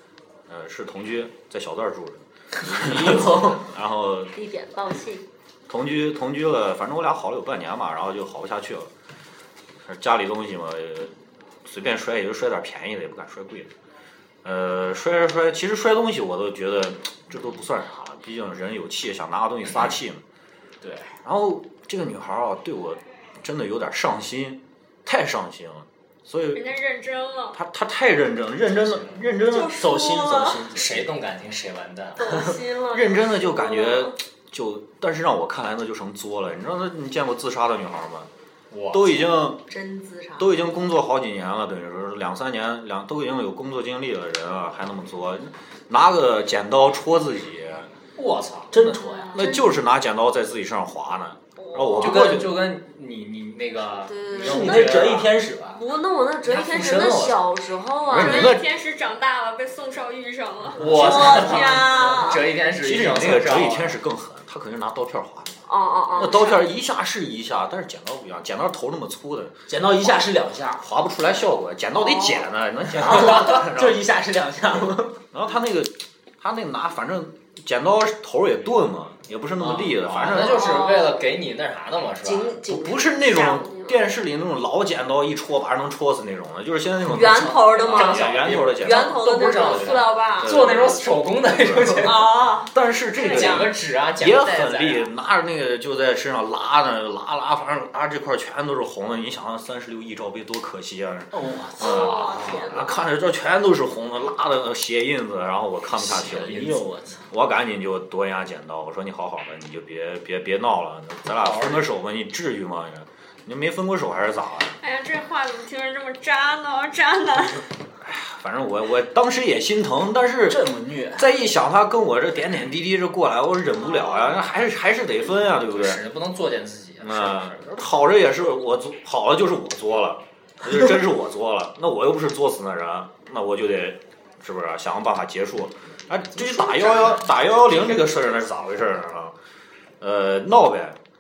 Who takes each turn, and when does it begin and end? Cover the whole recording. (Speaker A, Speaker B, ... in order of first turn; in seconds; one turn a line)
Speaker A: 0.5-4.3
Speaker B: 2.6-3.6
Speaker C: 4.3-5.3
Speaker A: 5.7-8.9
Speaker A: 9.8-13.7
Speaker A: 14.4-20.2
Speaker D: 20.8-21.1
Speaker A: 21.2-26.7
Speaker E: 26.5-27.6
Speaker A: 27.5-29.8
Speaker C: 29.4-30.6
Speaker B: 29.8-31.1
Speaker D: 30.7-32.2
Speaker C: 32.2-34.1
Speaker A: 32.9-38.3
Speaker D: 38.7-39.3
Speaker A: 38.9-39.6
Speaker C: 39.7-40.6
Speaker A: 40.4-47.9
Speaker D: 48.2-48.8
Speaker B: 48.7-49.4
Speaker C: 48.8-49.7
Speaker A: 49.3-52.5
Speaker C: 51.6-52.4
Speaker D: 52.0-55.3
Speaker C: 54.1-55.1
Speaker B: 54.3-55.8
Speaker C: 55.8-58.6
Speaker D: 56.4-57.4
Speaker A: 58.1-58.7
Speaker E: 58.1-60.8
Speaker B: 60.8-62.4
Speaker D: 60.8-64.0
Speaker C: 60.9-62.4
Speaker A: 62.8-65.6
Speaker C: 65.7-66.7
Speaker A: 66.2-70.2
Speaker B: 69.7-70.8
Speaker A: 70.8-74.0
Speaker C: 72.0-72.5
Speaker B: 73.0-75.2
Speaker A: 75.3-80.7
Speaker D: 79.7-82.5
Speaker C: 80.4-81.2
Speaker C: 82.2-84.0
Speaker A: 82.7-114.8
Speaker C: 87.1-90.6
Speaker D: 87.4-92.2
Speaker C: 92.0-93.7
Speaker D: 93.2-95.1
Speaker B: 101.3-102.6
Speaker C: 101.8-103.0
Speaker D: 102.0-102.5
Speaker B: 106.1-107.2
Speaker D: 106.2-106.7
Speaker E: 114.8-117.7
Speaker A: 118.0-126.0
Speaker B: 120.5-121.3
Speaker D: 125.6-127.8
Speaker A: 127.0-139.4
Speaker D: 136.3-137.3
Speaker A: 140.0-141.0